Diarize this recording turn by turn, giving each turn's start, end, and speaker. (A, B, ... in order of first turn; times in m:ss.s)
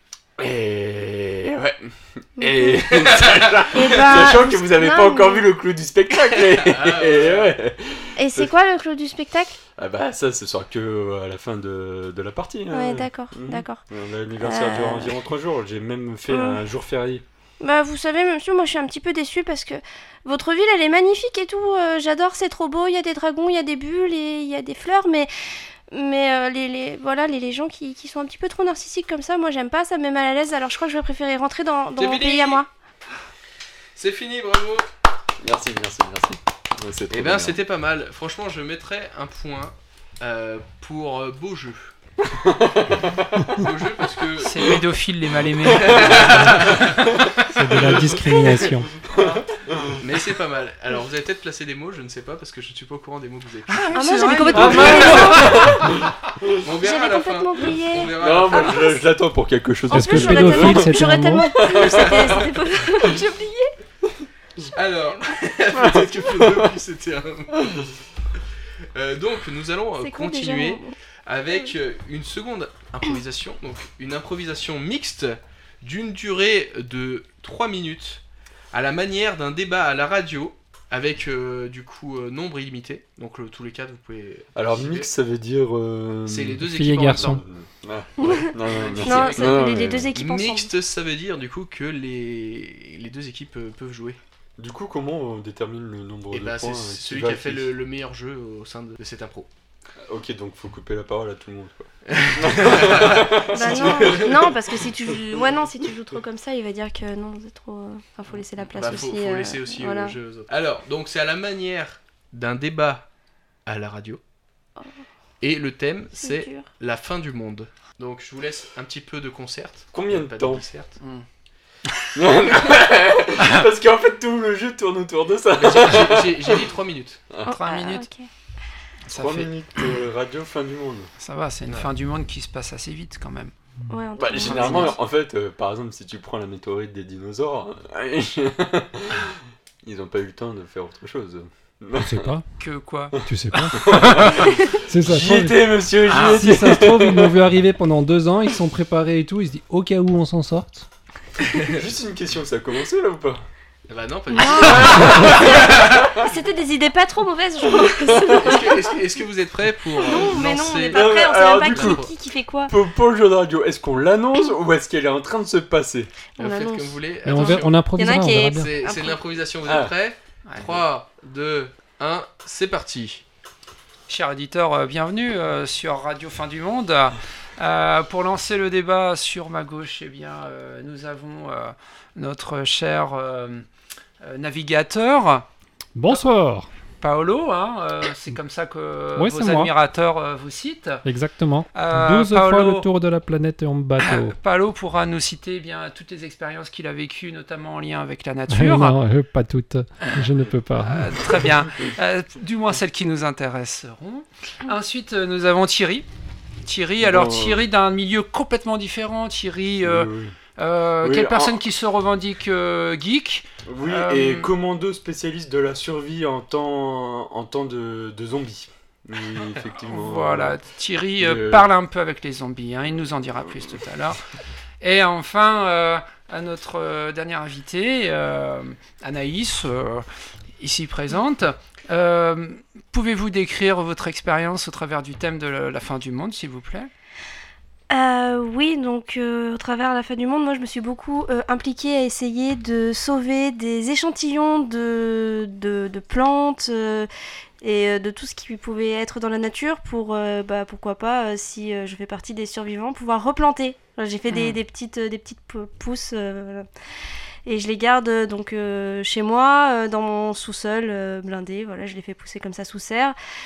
0:00.4-0:08.5 A
0:02.4-0:02.9 B
0:02.9-0:03.7 C
0:03.7-0:05.5 B
0:06.3-0:07.5 C
0:08.2-0:09.6 B
0:09.8-0:17.2 A
0:12.7-0:13.8 B
0:14.4-0:15.2 B
0:16.3-0:16.6 B
0:17.6-0:25.3 B
0:25.9-0:32.7 B
0:32.0-0:32.6 C
0:34.0-0:34.9 C
0:35.4-0:37.6 A
0:37.1-0:41.9 C
0:42.3-0:43.5 A
0:43.5-0:44.8 C
0:44.4-0:46.8 D
0:45.6-0:47.1 C
0:45.8-0:46.2 A
0:47.5-0:48.9 E
0:47.8-0:48.2 A
0:47.8-0:49.4 C
0:49.1-0:50.0 A
0:50.0-0:55.6 C
0:53.7-0:56.0 D
0:53.9-0:55.6 B
0:54.6-0:54.9 E
0:54.8-0:56.6 A
0:56.6-0:59.0 C
0:56.8-0:59.0 B
0:58.2-1:01.0 A
0:59.9-1:01.5 E
0:59.9-1:03.7 B
1:01.5-1:02.5 A
1:04.7-1:07.9 C
1:05.8-1:06.7 A
1:08.9-1:25.1 C
1:10.0-1:10.9 B
1:24.6-1:30.1 A
1:26.3-1:27.4 C
1:26.6-1:27.4 E
1:28.2-1:28.5 B
1:28.2-1:29.5 C
1:29.0-1:30.7 B
1:30.2-1:34.2 C
1:34.6-1:37.8 A
1:36.3-1:39.5 C
1:40.1-1:44.3 A
1:42.1-1:44.7 C
1:43.5-1:50.2 B
1:48.7-1:53.1 C
1:53.7-1:54.2 C
1:55.4-2:01.0 C
1:56.2-1:56.7 B
1:59.9-2:00.6 A
2:02.2-2:06.7 A
2:05.6-2:07.2 C
2:07.4-2:08.3 B
2:07.5-2:08.1 D
2:09.1-2:09.5 D
2:09.1-2:11.1 A
2:11.2-2:13.5 D
2:13.9-2:15.0 B
2:14.2-2:22.3 A
2:14.5-2:14.9 D
2:22.0-2:22.5 E
2:22.6-2:24.7 D
2:23.2-2:30.9 E
2:23.7-2:27.5 A
2:26.1-2:26.4 D
2:31.5-2:31.8 C
2:31.7-2:33.4 A
2:33.9-2:36.1 C
2:34.3-2:38.7 B
2:34.6-2:36.1 A
2:38.0-2:38.4 A
2:38.3-2:41.1 C
2:40.0-2:42.7 B
2:40.9-2:42.1 A
2:41.6-2:42.1 C
2:42.7-2:46.1 A
2:46.4-2:49.2 B
2:46.4-2:53.2 C
2:47.2-2:48.7 E
2:49.6-2:49.9 A
2:50.5-2:50.8 D
2:54.1-3:03.7 D
3:04.2-3:05.5 D
3:06.0-3:06.7 E
3:07.0-3:11.0 D
3:09.2-3:09.7 E
3:11.0-3:14.4 E
3:11.7-3:12.9 D
3:14.0-3:19.0 D
3:18.5-3:21.4 E
3:20.0-3:26.1 D
3:26.6-3:34.5 D
3:27.0-3:27.7 A
3:29.8-3:30.4 A
3:31.0-3:31.6 A
3:33.7-3:40.6 A
3:39.8-3:44.2 D
3:41.2-3:41.7 A
3:44.8-3:50.1 D
3:50.6-3:56.9 D
3:57.9-4:07.1 B
4:07.6-4:16.7 B
4:14.3-4:14.6 D
4:17.4-4:23.2 B